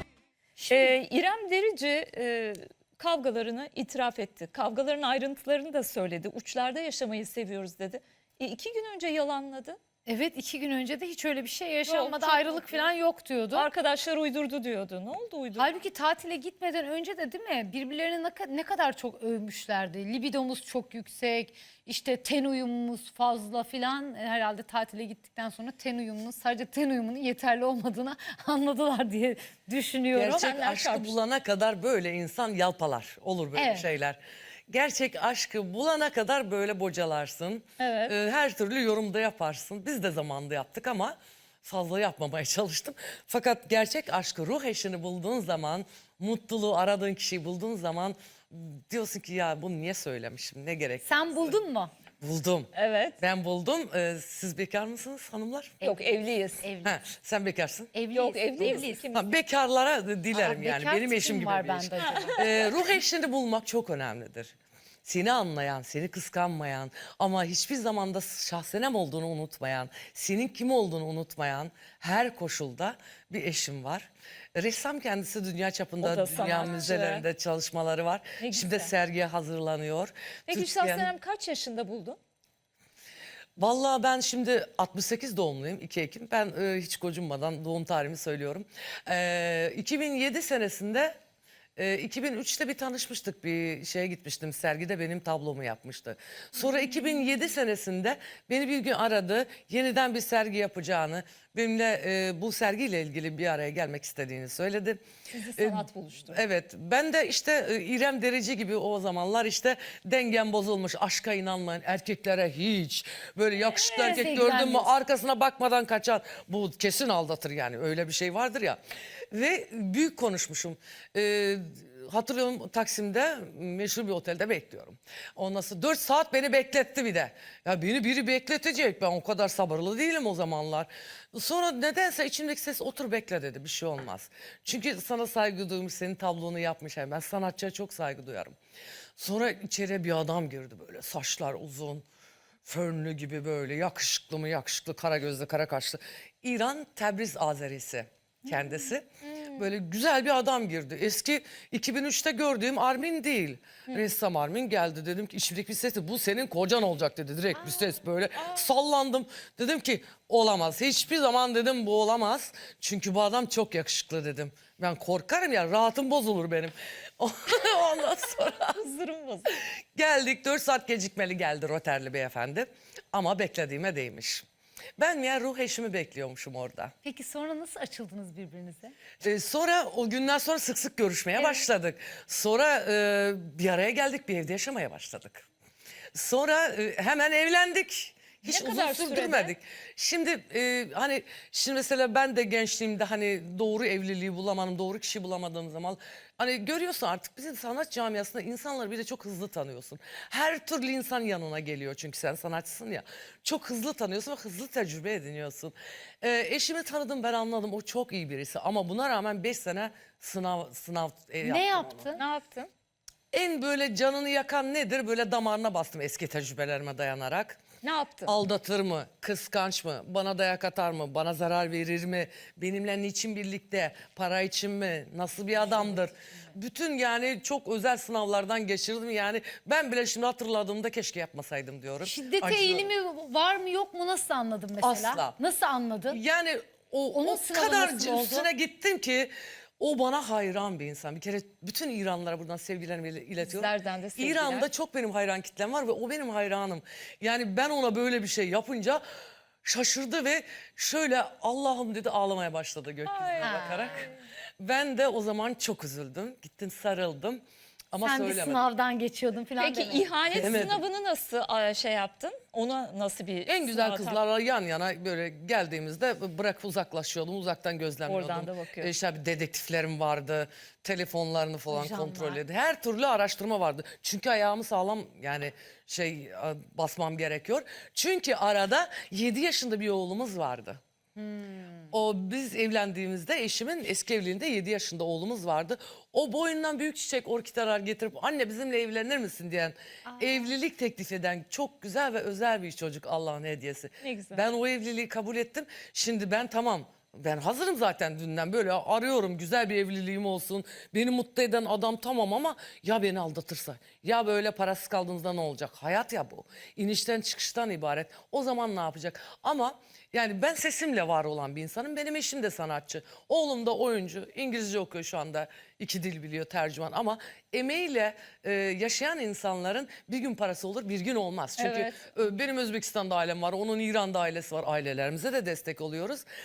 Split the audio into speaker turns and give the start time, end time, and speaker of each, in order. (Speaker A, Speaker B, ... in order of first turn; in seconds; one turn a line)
Speaker A: 0.6-0.9
Speaker B: 0.7-9.8
Speaker A: 10.1-13.7
Speaker B: 11.9-12.9
Speaker B: 13.5-15.7
Speaker A: 15.6-30.5
Speaker B: 30.2-31.1
Speaker C: 30.2-51.6
Speaker A: 33.6-33.9
Speaker B: 37.8-38.1
Speaker A: 51.0-51.9
Speaker C: 52.2-55.8
Speaker B: 52.8-53.2
Speaker B: 55.8-56.7
Speaker A: 55.8-57.0
Speaker C: 56.8-57.9
Speaker A: 57.9-59.0
Speaker B: 58.1-59.3
Speaker C: 58.6-64.5
Speaker A: 60.3-62.5
Speaker B: 62.0-62.7
Speaker C: 65.0-81.1
Speaker B: 76.0-77.2
Speaker B: 78.4-78.9
Speaker B: 80.5-82.2
Speaker C: 83.6-91.1
Speaker C: 91.8-105.0
Speaker B: 105.3-106.4
Speaker C: 105.6-118.8
Speaker A: 113.8-114.9
Speaker B: 113.9-114.2
Speaker C: 119.3-138.6
Speaker C: 139.2-142.0
Speaker C: 142.7-168.8
Speaker B: 168.8-169.5
Speaker C: 169.9-174.4
Speaker C: 175.0-176.9
Speaker A: 177.0-178.9
Speaker C: 179.2-185.4
Speaker B: 181.4-181.7
Speaker C: 186.2-212.1
Speaker B: 188.4-189.6
Speaker A: 211.4-212.2
Speaker B: 212.1-212.7
Speaker C: 213.3-217.6
Speaker B: 217.8-218.3
Speaker C: 218.3-232.9
Speaker A: 232.0-236.2
Speaker C: 234.8-235.4
Speaker C: 236.1-249.0
Speaker A: 237.1-238.5
Speaker B: 243.4-244.7
Speaker C: 249.7-257.4
Speaker B: 253.1-254.2
Speaker A: 253.4-253.9
Speaker C: 257.9-258.6
Speaker A: 258.0-260.1
Speaker B: 259.6-264.2
Speaker C: 260.3-260.8
Speaker C: 263.5-280.8
Speaker B: 268.1-268.9
Speaker A: 271.7-272.4
Speaker A: 281.2-281.9
Speaker C: 281.9-326.2
Speaker A: 290.1-290.5
Speaker B: 294.0-294.4
Speaker B: 321.6-322.2